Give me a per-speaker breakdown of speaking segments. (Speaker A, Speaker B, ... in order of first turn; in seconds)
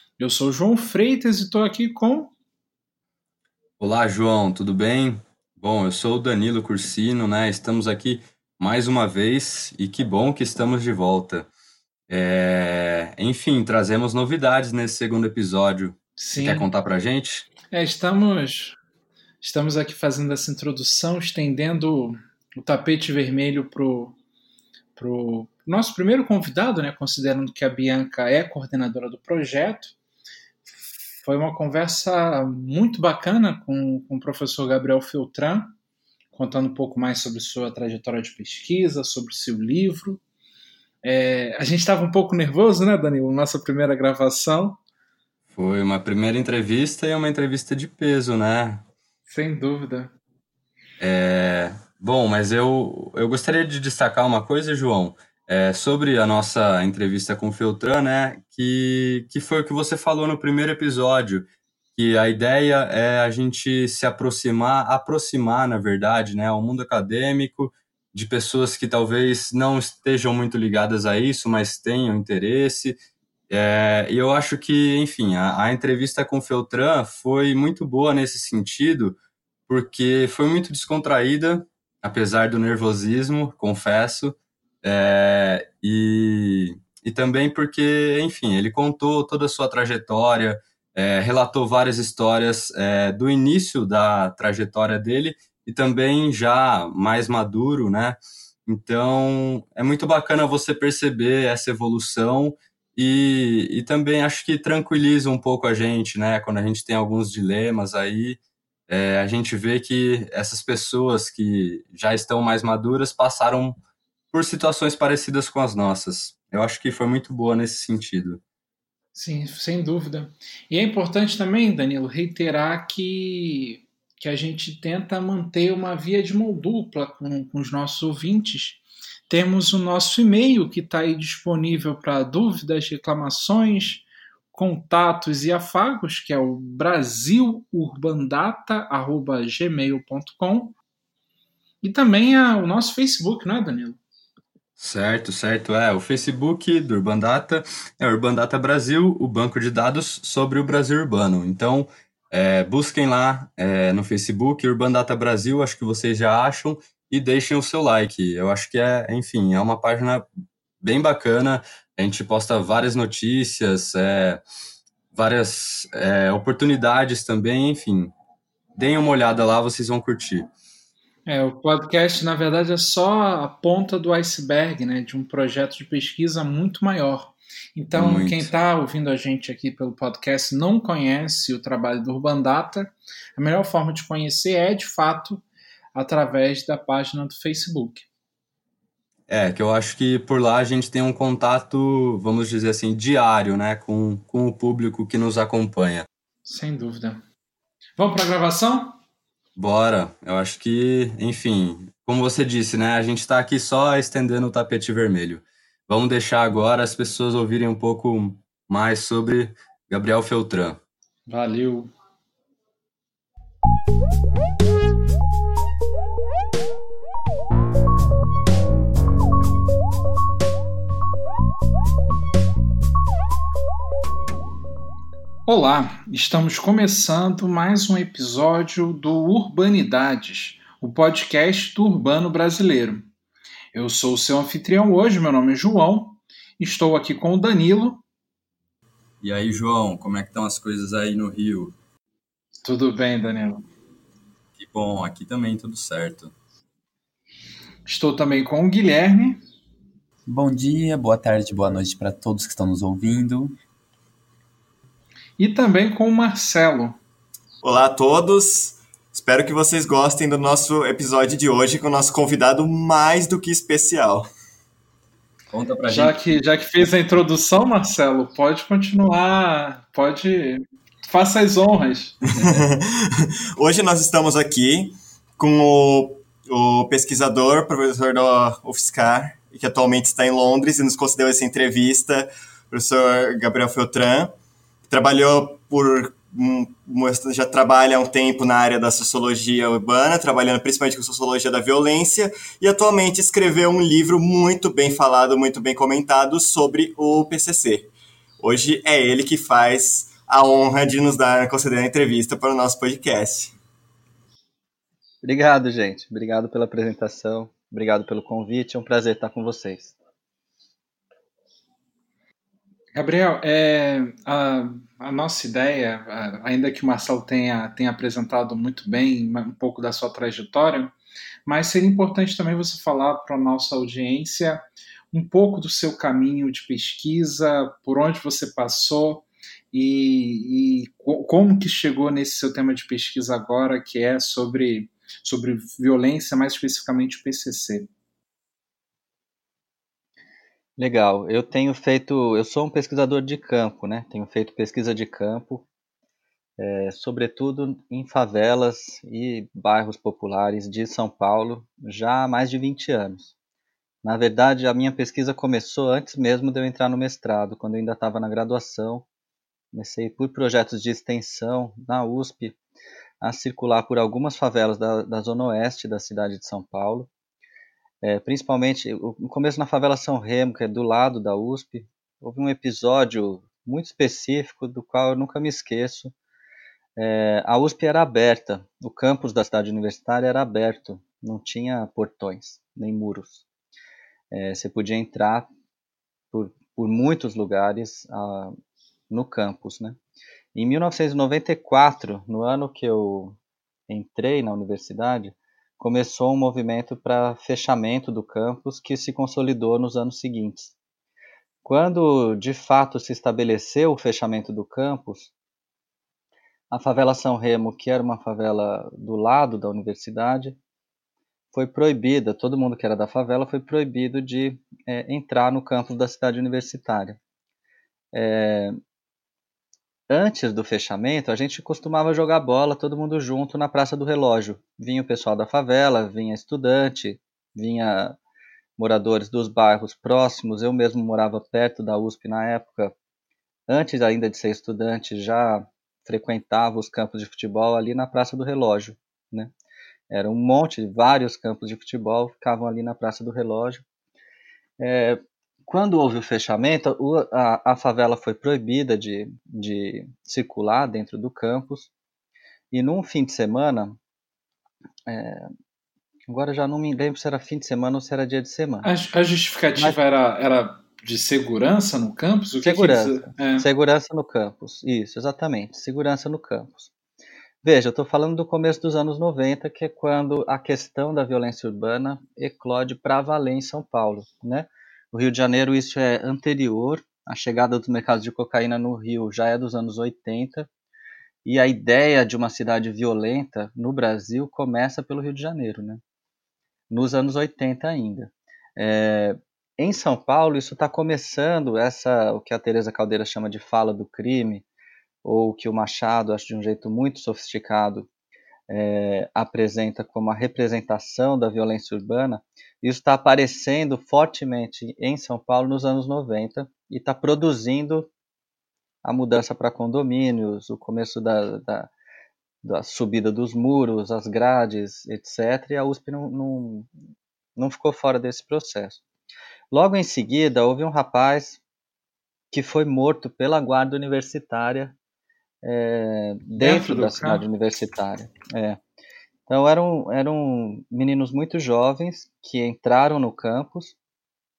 Speaker A: 0.2-2.3, 16.2-16.7, 17.7-18.8, 19.4-24.1, 25.0-29.9, 30.7-35.7, 36.3-40.2, 41.0-44.8, 49.3-50.1, 119.2-140.8, 141.8-144.0, 171.2-185.4, 185.9-188.1, 196.4-197.2, 198.0-199.0, 211.3-211.9, 225.5-233.1, 233.7-238.0, 242.6-243.6, 247.9-249.4, 255.4-257.0, 265.9-272.2, 312.9-320.9, 321.4-337.9, 458.8-463.7, 526.6-527.5
Speaker B: 3.8-11.5, 12.1-17.5, 45.5-48.8, 51.0-73.0, 73.5-79.2, 79.7-113.8, 114.3-118.4, 144.8-160.2, 160.8-164.4, 165.1-168.1, 168.8-170.5, 178.0-178.5, 189.3-196.1, 199.6-210.8, 239.2-241.8, 244.6-246.3, 265.5-266.2
Speaker C: 250.2-253.6
Speaker D: 257.6-264.3, 272.3-284.3, 284.9-303.5
Speaker E: 305.2-309.9, 340.8-345.7, 346.6-353.3, 354.0-359.1, 359.7-362.6, 363.2-367.1, 368.0-376.1, 377.0-383.4, 384.3-385.5, 386.3-388.6, 389.1-390.0, 390.6-393.4, 393.9-400.7, 401.6-405.3, 406.7-410.6, 411.5-417.2, 418.1-418.8, 420.1-428.2, 428.8-432.9, 433.7-439.5, 440.1-443.8, 444.8-451.9, 452.7-454.0, 455.1-455.5, 456.3-458.9, 462.6-466.9, 467.6-480.7, 481.4-486.0, 486.9-494.6, 495.2-498.1, 498.7-508.1, 509.0-511.9, 512.6-516.9, 517.5-519.0, 519.7-521.6, 522.5-525.0, 525.6-528.8, 529.5-534.0